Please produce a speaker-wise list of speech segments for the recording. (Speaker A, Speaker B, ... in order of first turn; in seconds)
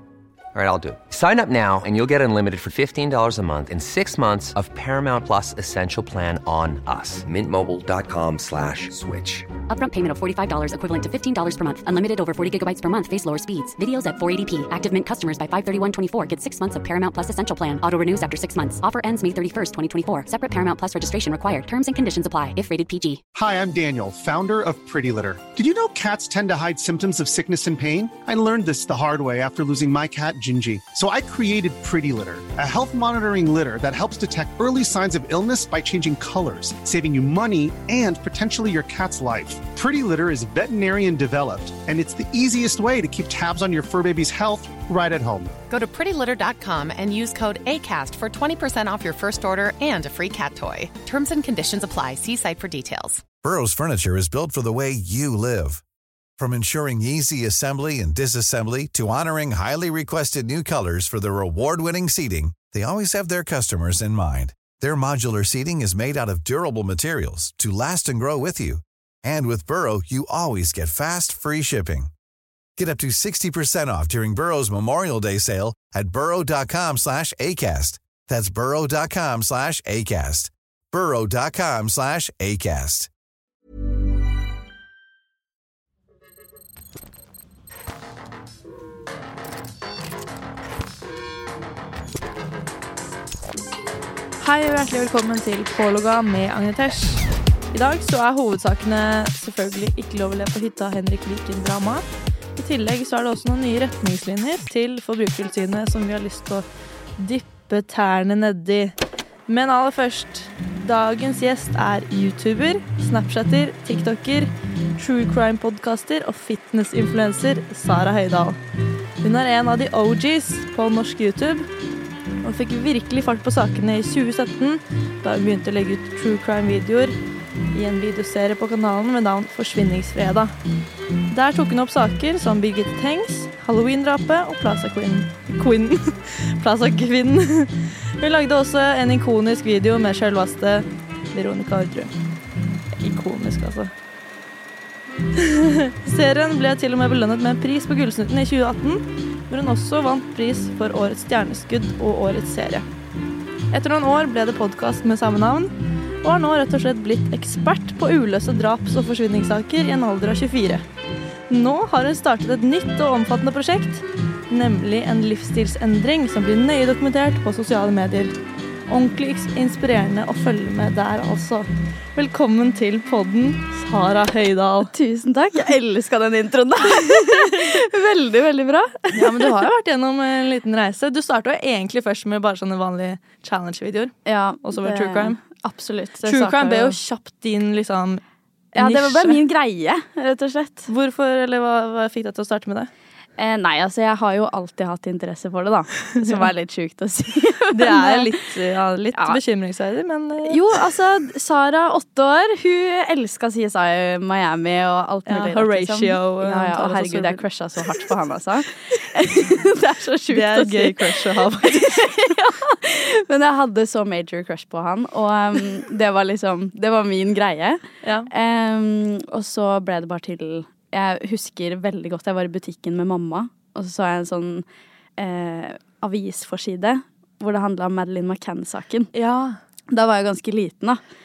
Speaker A: 0.5-9.4
Speaker B: 9.7-23.2
Speaker C: 23.3-45.5
Speaker D: 45.7-53.2
Speaker E: 53.4-55.8, 56.4-72.1, 72.8-83.1
Speaker F: 94.4-102.0, 102.5-106.6, 107.2-108.9, 109.5-118.6, 119.2-121.7, 122.4-127.2, 127.7-130.5, 131.3-142.1, 143.0-143.9, 145.3-152.8, 153.7-160.8, 161.5-168.3, 168.9-174.9, 179.1-185.4, 186.2-188.2, 188.7-189.4, 190.9-192.9, 197.7-200.6, 205.3-208.0, 210.3-212.2, 218.0-218.3, 229.1-229.6
Speaker G: 174.9-179.5, 184.2-187.0, 188.8-190.9, 193.4-198.3, 200.4-224.6, 225.2-229.1, 229.9-231.0